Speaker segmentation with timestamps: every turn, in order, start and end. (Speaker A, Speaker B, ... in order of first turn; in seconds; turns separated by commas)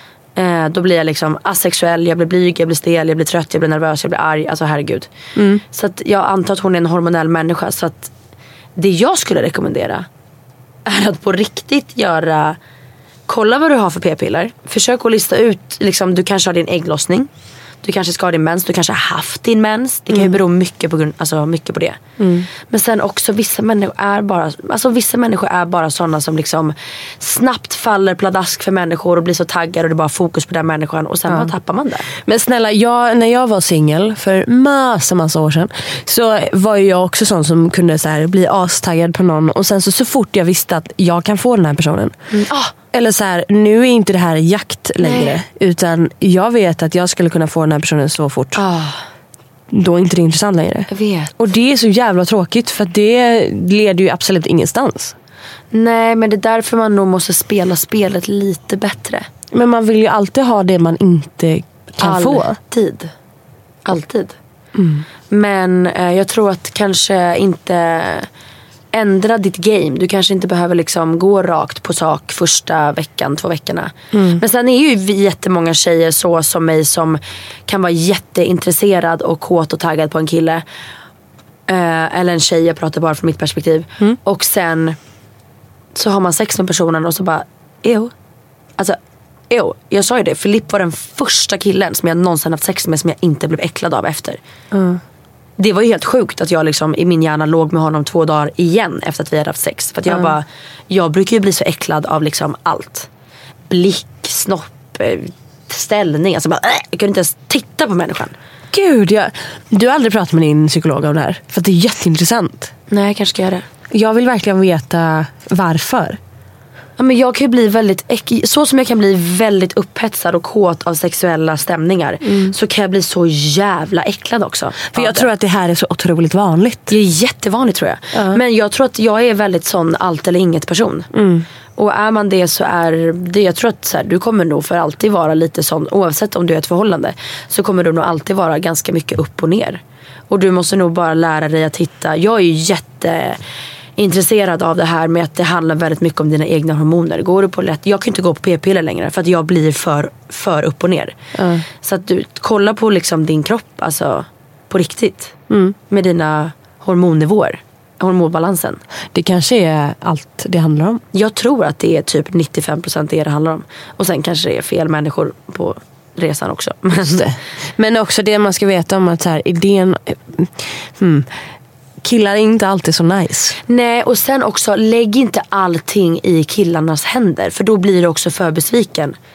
Speaker A: 0.4-5.1, Speaker B: 5.4-5.6, Speaker A: 5.7-8.1, Speaker A: 8.8-10.1, Speaker A: 10.8-12.6, Speaker A: 13.3-17.3, Speaker A: 17.8-22.0, Speaker B: 22.2-22.5, Speaker A: 22.7-32.1, Speaker B: 32.2-42.1, Speaker A: 42.3-42.7, Speaker B: 42.9-48.6, Speaker A: 45.0-45.4, Speaker A: 48.5-49.0, Speaker B: 49.7-55.1, Speaker A: 50.9-51.3, Speaker A: 55.7-59.3, Speaker B: 59.5-62.6, Speaker A: 62.0-63.1, Speaker A: 63.9-64.4, Speaker B: 64.8-65.0, Speaker A: 65.3-68.3, Speaker A: 68.9-80.7, Speaker B: 74.1-74.4, Speaker A: 81.7-85.0, Speaker A: 85.9-88.1, Speaker A: 89.5-94.4, Speaker B: 94.7-95.0, Speaker A: 95.6-103.1, Speaker B: 100.1-100.3, Speaker A: 103.7-108.4, Speaker B: 108.7-112.7, Speaker A: 112.9-113.7, Speaker B: 113.9-116.2, Speaker A: 117.0-125.3, Speaker B: 122.3-122.5, Speaker B: 124.9-127.0, Speaker A: 126.9-131.1, Speaker B: 128.1-128.4, Speaker B: 131.1-131.5, Speaker A: 131.8-143.4, Speaker A: 144.0-151.2, Speaker B: 151.3-151.7, Speaker A: 151.8-155.4, Speaker B: 155.5-155.8, Speaker A: 155.9-158.8, Speaker B: 159.1-161.0, Speaker A: 161.1-167.3, Speaker B: 166.9-171.3, Speaker B: 172.0-173.6, Speaker A: 173.7-179.2